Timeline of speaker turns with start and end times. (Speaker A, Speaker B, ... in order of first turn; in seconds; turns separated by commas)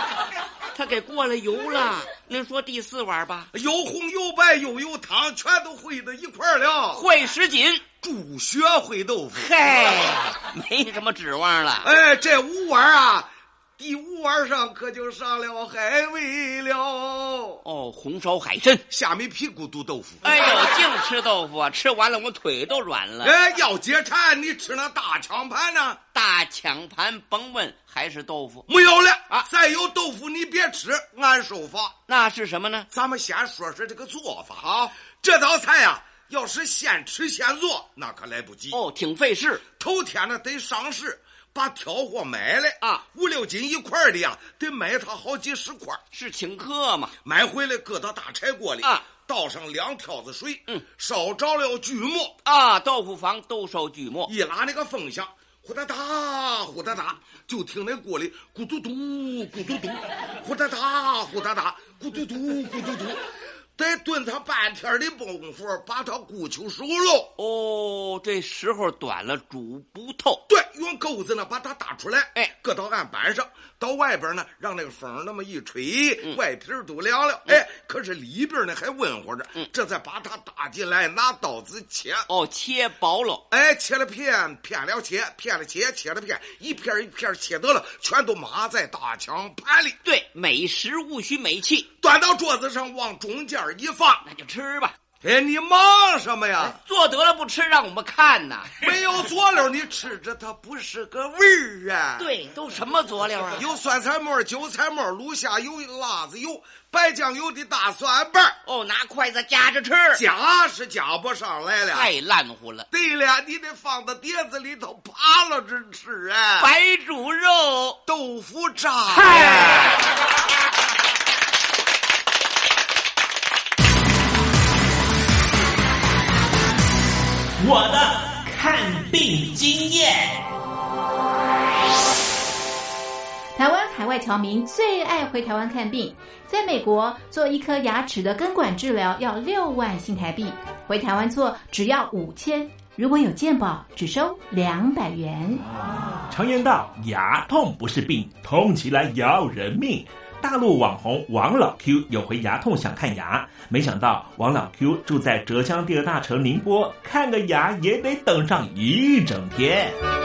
Speaker A: 0.7-3.5, Speaker B: 3.5-7.0, Speaker A: 6.9-7.8, Speaker B: 8.0-9.5, Speaker A: 9.3-11.9, Speaker B: 11.8-17.6, Speaker A: 17.6-18.8, Speaker B: 18.9-20.4, Speaker A: 20.2-23.3, Speaker B: 23.2-26.0, Speaker A: 26.1-28.7, Speaker B: 28.7-32.0, Speaker A: 32.1-32.9, Speaker B: 32.9-38.8, Speaker A: 34.6-34.9, Speaker A: 38.7-39.6, Speaker B: 39.8-46.0, Speaker A: 46.1-47.1, Speaker B: 47.2-52.3, Speaker A: 52.4-54.3, Speaker B: 54.3-63.2, Speaker B: 63.8-67.3, Speaker A: 67.4-70.4, Speaker B: 70.5-82.3, Speaker A: 82.3-83.4, Speaker B: 83.5-90.0, Speaker A: 90.0-91.9, Speaker B: 92.0-94.2, Speaker A: 94.2-94.9, Speaker B: 95.2-96.8, Speaker A: 96.6-98.8, Speaker B: 98.8-102.3, Speaker A: 102.2-103.7, Speaker B: 103.5-108.6, Speaker A: 108.7-110.2, Speaker B: 110.1-112.1, Speaker A: 111.9-112.9, Speaker B: 112.9-116.7, Speaker A: 116.6-118.0, Speaker B: 118.0-119.9, Speaker A: 119.1-120.0, Speaker C: 127.6-130.4, Speaker D: 133.6-145.6, Speaker C: 146.3-159.9